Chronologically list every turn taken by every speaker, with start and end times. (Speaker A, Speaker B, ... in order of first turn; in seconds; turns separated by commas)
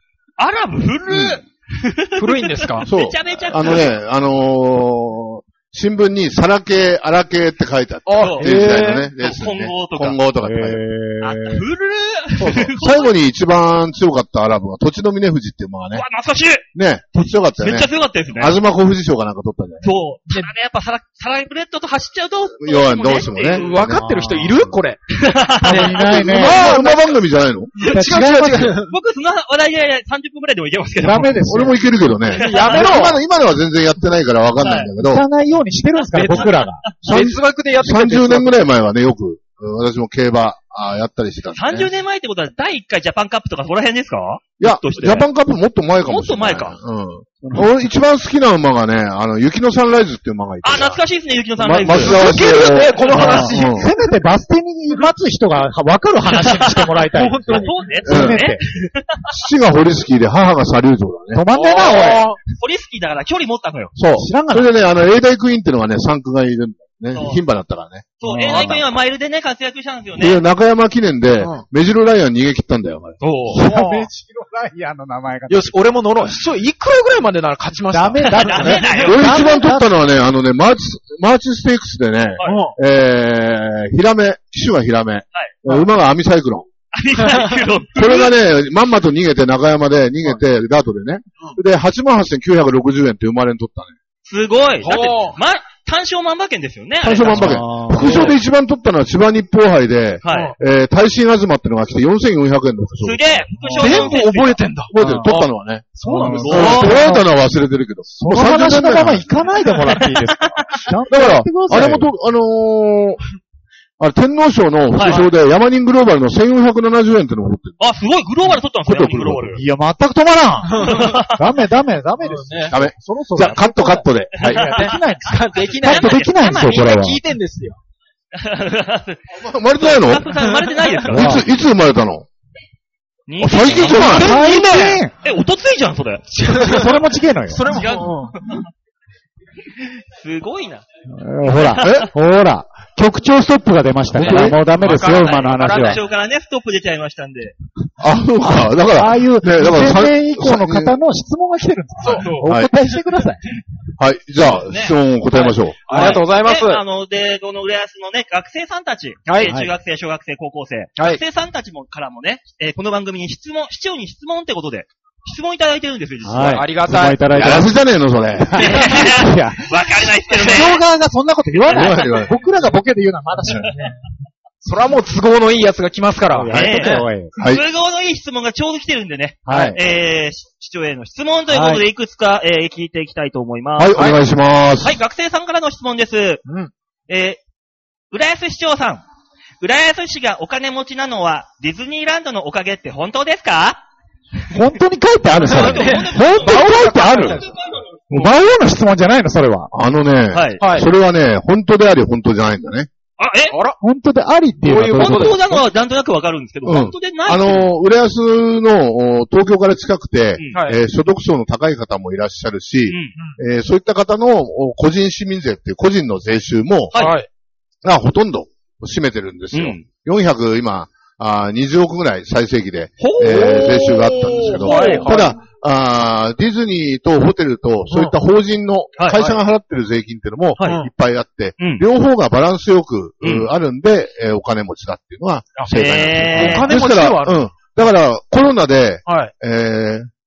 Speaker A: 0.4-3.8, Speaker B: 1.1-1.4, Speaker C: 2.2-2.9, Speaker B: 2.8-10.9, Speaker C: 8.1-9.1, Speaker A: 8.2-8.5, Speaker A: 9.2-10.2, Speaker D: 10.4-11.6, Speaker A: 11.2-13.1, Speaker B: 12.4-16.1, Speaker A: 15.9-16.7, Speaker B: 16.7-19.9, Speaker A: 17.6-18.6, Speaker A: 19.8-23.7, Speaker B: 22.6-24.8, Speaker C: 23.5-25.1, Speaker A: 25.1-26.2, Speaker D: 25.6-26.7, Speaker C: 25.6-27.1, Speaker B: 26.1-27.7, Speaker C: 27.8-28.9, Speaker D: 27.9-28.7, Speaker A: 28.9-31.5, Speaker D: 31.0-31.8, Speaker B: 31.4-35.2, Speaker C: 32.3-33.2, Speaker A: 32.4-32.9, Speaker A: 34.6-34.9, Speaker D: 35.0-36.9, Speaker C: 36.1-38.6, Speaker A: 36.4-37.2, Speaker B: 37.0-41.9, Speaker A: 41.5-45.3, Speaker B: 44.6-51.0, Speaker A: 46.1-46.8, Speaker A: 50.6-52.4, Speaker B: 51.6-53.9, Speaker C: 51.9-54.1, Speaker D: 53.1-58.6, Speaker C: 57.0-58.0, Speaker A: 57.5-59.3, Speaker B: 58.0-58.4, Speaker B: 59.3-61.4, Speaker D: 61.3-62.3, Speaker C: 61.5-62.4, Speaker A: 61.8-63.9, Speaker B: 63.9-68.9, Speaker D: 64.2-64.7, Speaker A: 67.1-67.4, Speaker A: 68.2-70.4, Speaker D: 68.2-68.8, Speaker B: 70.2-73.2, Speaker C: 71.4-71.6, Speaker A: 73.2-73.6, Speaker D: 73.5-75.8, Speaker C: 73.5-74.1, Speaker C: 75.5-79.1, Speaker D: 77.9-79.9, Speaker A: 78.2-79.4, Speaker B: 79.0-86.7, Speaker C: 82.4-82.8, Speaker A: 86.9-88.3, Speaker B: 87.9-93.9, Speaker A: 94.3-98.1, Speaker C: 94.8-95.4, Speaker B: 97.0-103.5, Speaker D: 97.3-98.4, Speaker A: 100.2-100.5, Speaker A: 103.0-104.6, Speaker D: 103.6-104.1, Speaker C: 103.8-106.8, Speaker B: 104.9-109.4, Speaker D: 105.0-105.3, Speaker D: 106.0-107.2, Speaker A: 106.4-107.0, Speaker D: 108.1-112.1, Speaker B: 111.1-113.2, Speaker B: 114.0-117.8, Speaker A: 114.9-115.3, Speaker A: 117.8-119.6, Speaker B: 118.5-119.5, Speaker D: 119.5-127.2, Speaker C: 120.7-121.2, Speaker A: 120.8-121.3, Speaker C: 122.2-122.7, Speaker B: 122.7-124.8, Speaker A: 124.4-126.9, Speaker C: 124.5-127.8, Speaker A: 128.3-131.2, Speaker B: 129.3-130.4, Speaker C: 130.5-130.9, Speaker B: 131.0-132.2, Speaker D: 131.1-131.4, Speaker A: 133.3-134.6, Speaker B: 133.4-134.4, Speaker C: 133.8-135.0, Speaker D: 133.9-135.1, Speaker A: 135.2-136.3, Speaker C: 136.3-138.4, Speaker D: 136.5-137.8, Speaker A: 137.7-138.7, Speaker A: 139.8-140.8, Speaker D: 141.1-146.0, Speaker A: 141.5-142.1, Speaker B: 141.8-142.1, Speaker B: 144.1-144.6, Speaker C: 144.2-146.0, Speaker A: 144.8-147.5, Speaker B: 148.0-151.0, Speaker D: 148.4-153.5, Speaker C: 152.0-152.4, Speaker B: 152.4-152.7, Speaker B: 154.0-155.9, Speaker A: 154.6-154.9, Speaker C: 155.8-156.8, Speaker A: 155.8-166.7, Speaker C: 159.3-159.5, Speaker D: 159.4-159.7, Speaker D: 166.2-167.8, Speaker C: 166.5-167.2, Speaker B: 167.3-168.7, Speaker C: 168.5-168.9, Speaker D: 168.5-169.7, Speaker A: 168.6-170.8, Speaker D: 170.3-174.0, Speaker B: 171.7-172.3, Speaker C: 174.6-177.0, Speaker D: 176.3-177.3, Speaker B: 176.5-176.8, Speaker A: 176.5-184.2, Speaker B: 177.3-177.6, Speaker D: 179.5-179.8, Speaker D: 181.5-181.8, Speaker B: 183.8-184.9, Speaker A: 184.8-186.4, Speaker C: 186.4-186.7, Speaker A: 187.1-187.4, Speaker A: 188.1-189.0, Speaker A: 189.6-193.8, Speaker D: 194.5-197.5, Speaker C: 195.4-197.5, Speaker A: 195.4-198.3, Speaker D: 198.1-199.7, Speaker B: 199.7-202.9, Speaker A: 200.3-200.6, Speaker C: 200.6-200.9, Speaker A: 203.2-203.6, Speaker C: 203.5-203.8, Speaker D: 203.8-205.6, Speaker C: 204.6-205.4, Speaker A: 204.9-207.7, Speaker B: 206.7-216.9, Speaker C: 210.5-210.8, Speaker A: 212.9-213.1, Speaker A: 216.9-217.2, Speaker C: 216.9-217.3, Speaker B: 217.8-240.1, Speaker A: 219.5-219.8, Speaker A: 223.0-225.1, Speaker C: 223.2-225.4, Speaker C: 227.9-228.2, Speaker A: 229.0-229.2, Speaker C: 230.6-230.9, Speaker A: 231.6-231.8, Speaker A: 233.2-233.5, Speaker A: 235.7-236.7, Speaker C: 236.3-237.5, Speaker C: 239.1-239.3